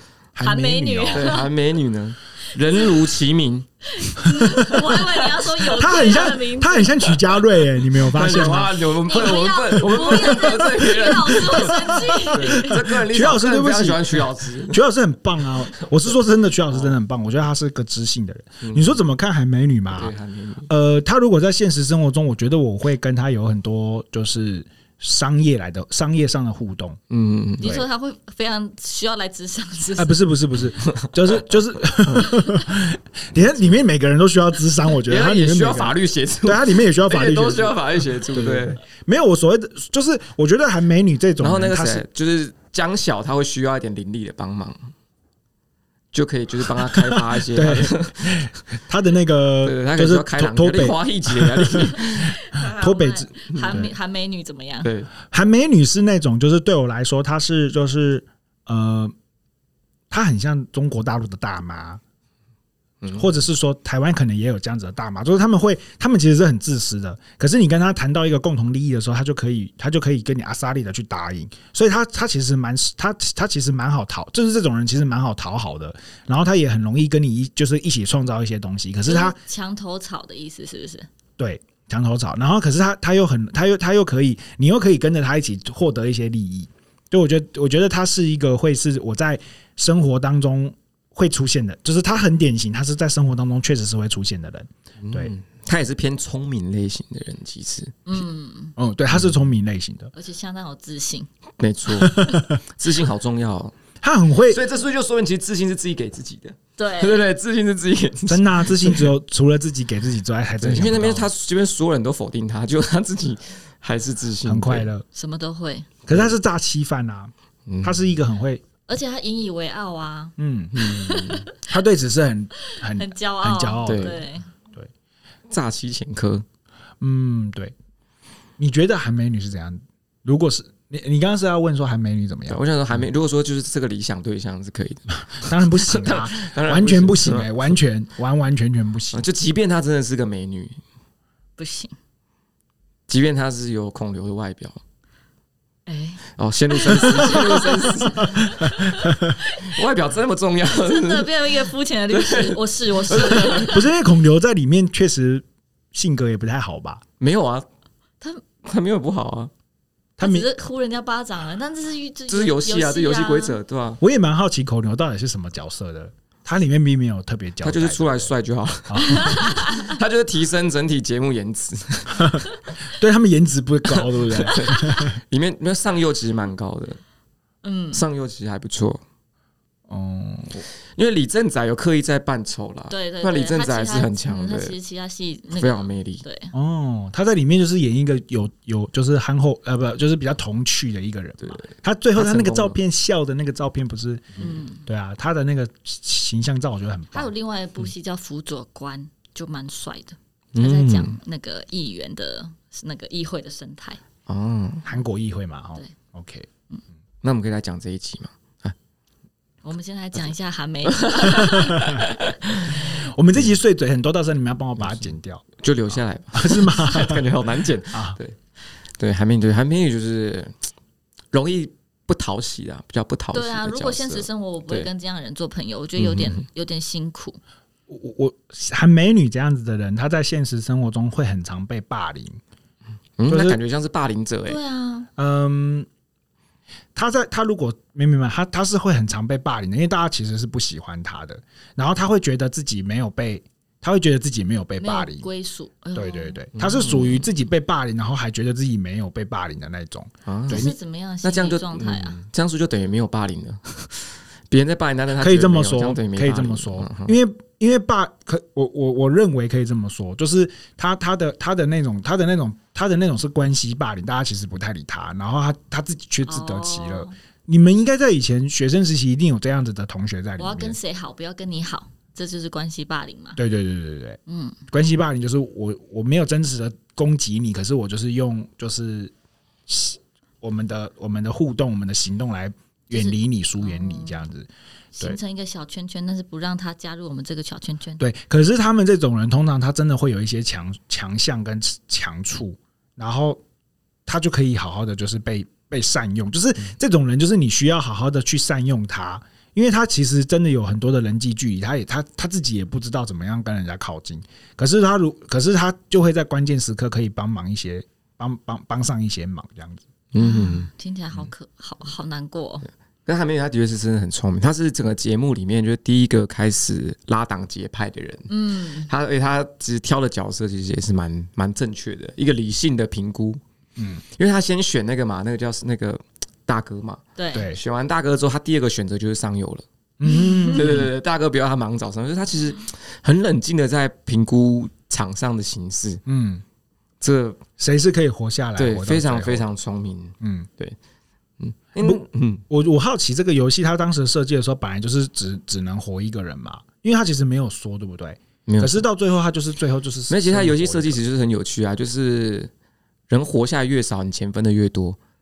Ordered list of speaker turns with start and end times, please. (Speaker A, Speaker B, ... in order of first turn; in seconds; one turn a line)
Speaker A: 0.3-1.4
Speaker B: 0.4-1.5
Speaker C: 1.1-3.7
Speaker B: 3.9-7.2
Speaker A: 4.2-4.8
Speaker C: 4.9-5.4
Speaker A: 5.6-8.9
Speaker C: 7.9-14.8
Speaker B: 9.0-12.8
Speaker A: 10.0-20.1
Speaker C: 15.8-16.1
Speaker C: 16.7-17.0
Speaker C: 18.6-19.0
Speaker C: 19.9-20.7
Speaker A: 20.7-27.0
Speaker C: 27.1-27.8
Speaker B: 27.6-30.3
Speaker A: 29.9-42.0
Speaker C: 30.8-31.1
Speaker C: 35.0-38.8
Speaker C: 41.4-44.9
Speaker C: 46.1-48.5
Speaker A: 46.8-53.9
Speaker C: 49.6-52.4
Speaker B: 52.1-54.9
Speaker C: 53.5-53.9
Speaker C: 54.8-55.1
Speaker A: 55.3-59.1
Speaker A: 60.1-62.0
Speaker C: 63.0-63.3
Speaker A: 63.1-79.3
Speaker B: 79.0-81.1
Speaker A: 81.4-95.3
Speaker C: 95.0-98.0
Speaker B: 98.1-98.7
Speaker A: 98.8-100.1
Speaker B: 100.1-101.3
Speaker C: 101.6-103.7
Speaker A: 101.9-102.6
Speaker A: 104.0-104.6
Speaker C: 104.5-109.1
Speaker B: 106.8-107.2
Speaker A: 108.3-111.3
Speaker C: 110.6-114.9
Speaker A: 114.4-115.0
Speaker B: 115.1-115.9
Speaker C: 116.1-116.3
Speaker A: 116.1-118.6
Speaker C: 117.7-118.2
Speaker B: 118.9-121.5
Speaker A: 120.4-124.9
Speaker C: 120.7-121.5
Speaker B: 122.7-124.5
Speaker C: 123.8-124.2
Speaker C: 125.5-126.4
Speaker A: 127.0-127.7
Speaker A: 128.6-133.1
Speaker C: 132.5-137.8
Speaker A: 135.2-139.2
Speaker C: 139.1-140.8
Speaker B: 141.6-141.9
Speaker C: 143.1-144.8
Speaker B: 145.9-149.8
Speaker C: 146.4-148.5
Speaker A: 147.2-149.4
Speaker C: 149.5-151.5
Speaker B: 150.7-153.9
Speaker C: 152.1-153.8
Speaker A: 153.4-157.0
Speaker C: 157.2-157.7
Speaker C: 158.6-159.5
Speaker A: 160.2-160.5
Speaker B: 160.2-163.6
Speaker C: 162.3-164.0
Speaker A: 164.0-168.3
Speaker C: 167.6-172.4
Speaker A: 168.9-169.4
Speaker B: 169.0-169.9
Speaker A: 172.1-175.2
Speaker C: 173.9-177.0
Speaker B: 177.6-178.0
Speaker C: 177.9-179.0
Speaker A: 179.9-180.7
Speaker C: 180.9-184.8
Speaker B: 182.9-186.5
Speaker C: 185.5-186.2
Speaker A: 186.5-197.3
Speaker C: 191.4-192.8
Speaker B: 194.4-194.8
Speaker B: 197.1-204.0
Speaker C: 200.5-201.2
Speaker C: 204.3-204.8
Speaker A: 204.8-206.5
Speaker C: 207.2-208.7
Speaker B: 209.6-211.9
Speaker C: 210.9-212.8
Speaker A: 211.2-212.0
Speaker A: 212.6-217.3
Speaker C: 214.8-215.1
Speaker C: 215.6-218.3
Speaker A: 217.9-218.2
Speaker C: 219.0-220.5
Speaker C: 221.3-224.9
Speaker B: 223.3-227.4
Speaker C: 226.0-226.4
Speaker A: 227.9-232.4
Speaker C: 233.2-234.6
Speaker A: 233.3-233.6
Speaker B: 234.5-235.1
Speaker A: 235.2-235.9
Speaker A: 236.9-245.3
Speaker B: 244.8-246.4
Speaker A: 245.9-250.7
Speaker C: 246.5-247.3
Speaker C: 250.2-257.2
Speaker B: 250.5-252.2
Speaker A: 255.2-270.8
Speaker B: 266.2-267.1
Speaker B: 270.4-273.4
Speaker A: 273.4-274.2
Speaker B: 274.3-274.6
Speaker A: 274.7-279.1
Speaker A: 279.7-284.5
Speaker B: 282.9-284.2
Speaker B: 284.9-288.0
Speaker A: 288.0-293.4
Speaker A: 294.1-309.9
Speaker C: 310.1-311.3
Speaker B: 310.1-312.7
Speaker C: 313.1-323.4
Speaker B: 318.3-318.9
Speaker A: 323.8-324.0
Speaker C: 324.1-329.6
Speaker B: 327.2-327.5
Speaker A: 327.3-327.6
Speaker A: 330.0-330.9
Speaker B: 330.0-330.7
Speaker C: 330.5-336.0
Speaker A: 336.1-336.4
Speaker C: 337.0-337.4
Speaker A: 337.6-339.5
Speaker C: 338.6-340.8
Speaker A: 340.2-340.5
Speaker C: 341.4-342.4
Speaker A: 341.8-351.0
Speaker C: 348.4-348.8
Speaker C: 350.1-352.5
Speaker C: 353.1-355.0